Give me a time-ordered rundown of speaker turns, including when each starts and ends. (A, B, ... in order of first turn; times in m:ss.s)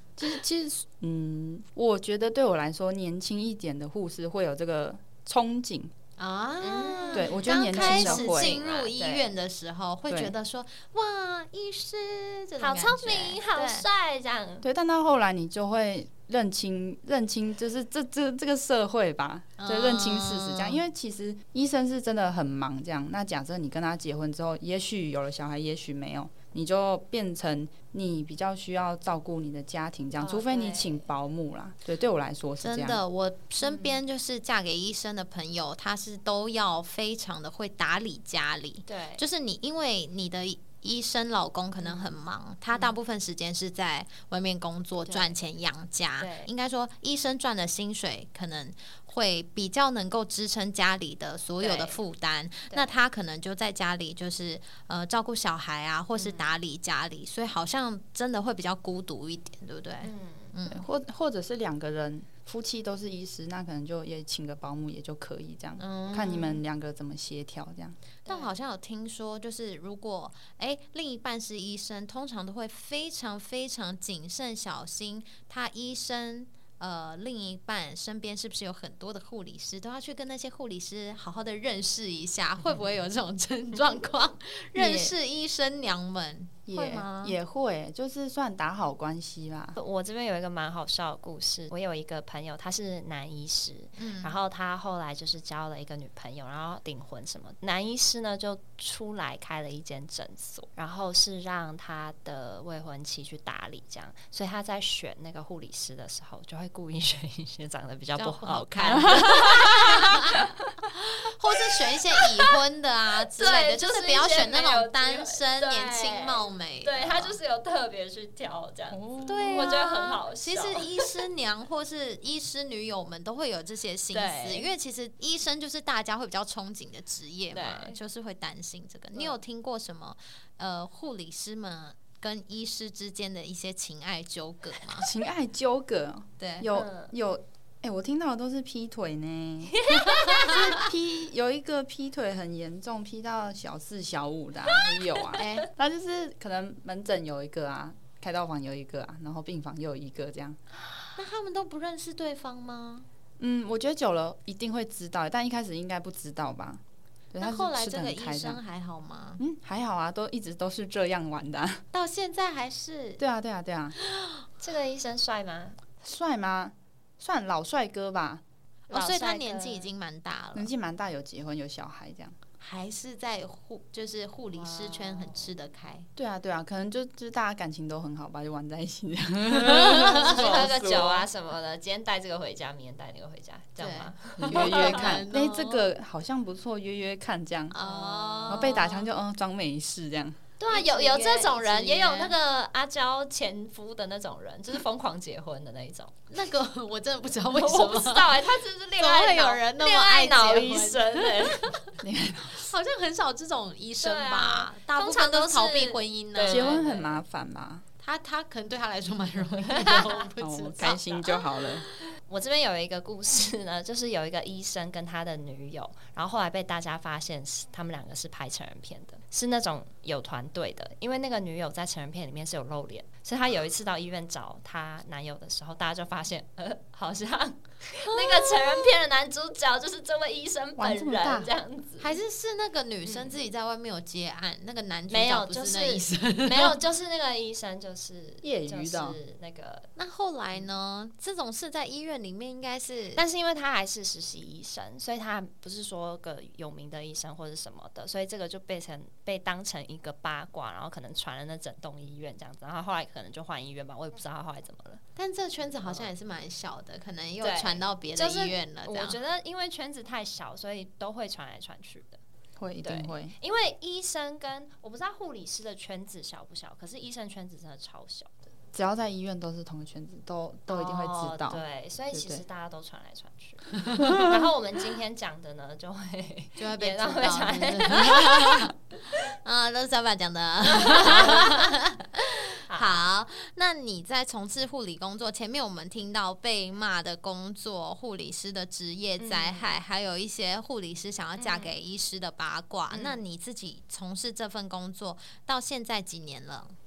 0:00.2-0:05.9 A
0:06.2-0:13.8 B
0:06.6-0:09.3 C
0:07.1-0:08.6 A
0:12.6-0:14.6 C
0:14.6-0:33.0 A
0:19.6-0:20.8 B
0:30.2-0:31.0 C
0:32.6-1:00.9 B
0:33.6-0:34.0 C
0:38.8-0:39.2 C
0:41.8-0:42.1 C
0:45.0-0:45.4 C
0:46.2-0:46.5 C
0:51.6-0:52.0 C
0:52.7-0:52.9 C
0:56.1-0:56.5 C
1:00.0-1:00.5 C
1:00.6-1:08.0 A
1:05.8-1:06.6 B
1:08.2-1:08.5 C
1:08.2-1:27.4 B
1:24.7-1:25.1 A
1:26.7-1:29.8 A
1:29.8-1:50.4 C
1:34.0-1:34.4 B
1:48.2-1:57.4 B
1:48.9-1:49.8 A
1:52.1-1:52.5 C
1:53.3-2:01.1 C
1:58.9-1:59.7 A
1:59.2-2:15.1 B
2:04.1-2:04.7 C
2:07.5-2:08.0 C
2:15.0-2:30.6 A
2:16.4-2:16.7 B
2:16.7-2:17.1 C
2:19.7-2:20.6 C
2:20.2-2:20.8 B
2:25.4-2:25.7 B
2:31.1-2:33.1 B
2:33.4-2:36.8 A
2:37.3-2:38.6 A
2:37.4-2:39.4 B
2:39.4-2:41.8 A
2:41.9-2:43.2 B
2:43.2-2:44.0 A
2:44.0-2:44.4 B
2:44.6-2:45.8 C
2:46.0-2:48.4 A
2:48.9-2:50.7 B
2:48.9-2:49.9 C
2:50.5-2:52.4 A
2:52.6-2:56.1 B
2:54.5-2:55.5 C
2:56.2-3:01.3 A
2:59.6-3:00.6 B
2:59.9-3:05.2 C
3:03.8-3:05.9 B
3:04.4-3:07.7 A
3:07.7-3:09.0 B
3:07.8-3:09.0 C
3:08.5-3:10.4 A
3:10.6-3:16.2 C
3:10.7-3:12.4 B
3:16.3-3:21.9 B
3:17.5-3:21.7 C
3:22.0-3:22.7 A
3:22.5-3:26.8 B
3:24.0-3:27.2 C
3:26.5-3:27.8 A
3:28.0-3:31.9 B
3:29.6-3:30.2 C
3:30.4-3:31.8 A
3:32.2-3:52.2 C
3:48.1-3:48.8 B
3:50.8-3:51.5 A
3:52.0-3:56.8 B
3:53.0-3:53.3 C
3:55.1-3:59.9 C
3:58.4-3:59.2 A
4:00.0-4:03.2 B
4:03.1-4:15.0 C
4:15.2-4:19.2 B
4:15.8-4:16.1 C
4:17.4-4:22.2 C
4:22.6-4:23.3 A
4:22.8-4:28.5 C
4:28.7-4:32.4 A
4:30.7-4:38.7 C
4:36.6-4:56.7 B
4:40.6-4:41.7 C
4:42.6-4:43.0 C
4:49.2-4:49.7 C
4:51.4-4:51.7 C
4:52.9-4:53.2 C